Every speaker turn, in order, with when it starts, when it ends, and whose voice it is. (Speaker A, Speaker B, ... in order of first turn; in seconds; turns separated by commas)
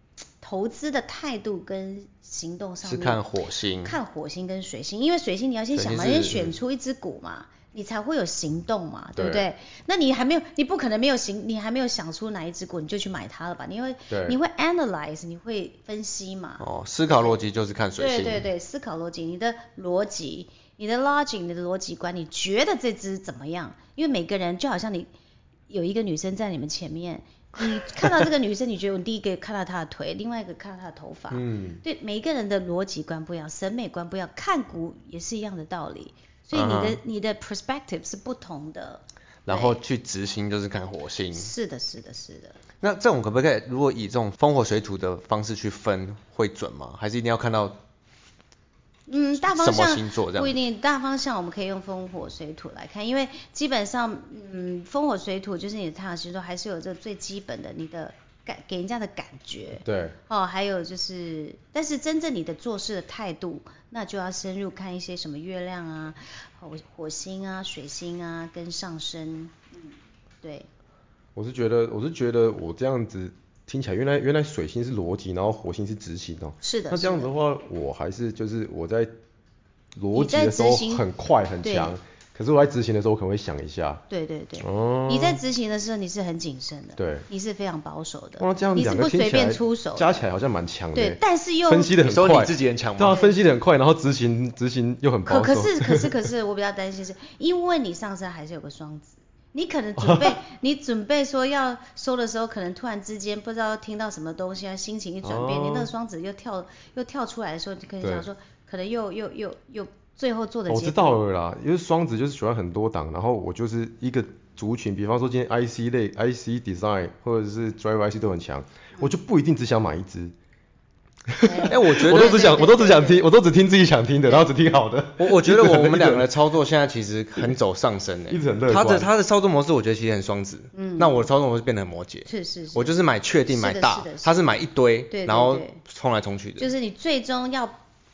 Speaker A: 0.4-3.2, Speaker B: 2.8-4.0, Speaker A: 3.8-17.4, Speaker B: 5.7-6.5, Speaker C: 9.2-9.4, Speaker C: 14.1-14.4, Speaker B: 16.6-18.4, Speaker A: 18.0-25.1, Speaker A: 25.7-39.8, Speaker C: 31.3-31.8, Speaker B: 36.5-37.0, Speaker B: 39.5-41.5, Speaker A: 41.3-42.6, Speaker B: 42.8-47.8, Speaker A: 49.1-70.7, Speaker B: 49.4-50.6, Speaker C: 59.9-60.1, Speaker C: 71.3-79.1, Speaker A: 76.6-77.3, Speaker C: 80.0-84.0, Speaker A: 80.1-81.1, Speaker A: 81.6-82.0, Speaker A: 84.1-90.2, Speaker C: 84.6-85.4, Speaker C: 87.0-87.3, Speaker C: 88.4-96.2, Speaker A: 90.9-92.0, Speaker B: 92.0-93.2, Speaker A: 93.1-93.4, Speaker A: 95.2-111.1, Speaker C: 100.0-100.4, Speaker C: 105.2-105.9, Speaker C: 108.0-108.3, Speaker C: 110.7-120.3, Speaker C: 121.3-126.3, Speaker A: 121.4-123.2, Speaker B: 121.7-122.6, Speaker A: 124.2-124.5, Speaker B: 125.2-136.7, Speaker C: 128.3-129.1, Speaker A: 130.7-131.2, Speaker A: 132.2-135.8, Speaker A: 136.6-137.8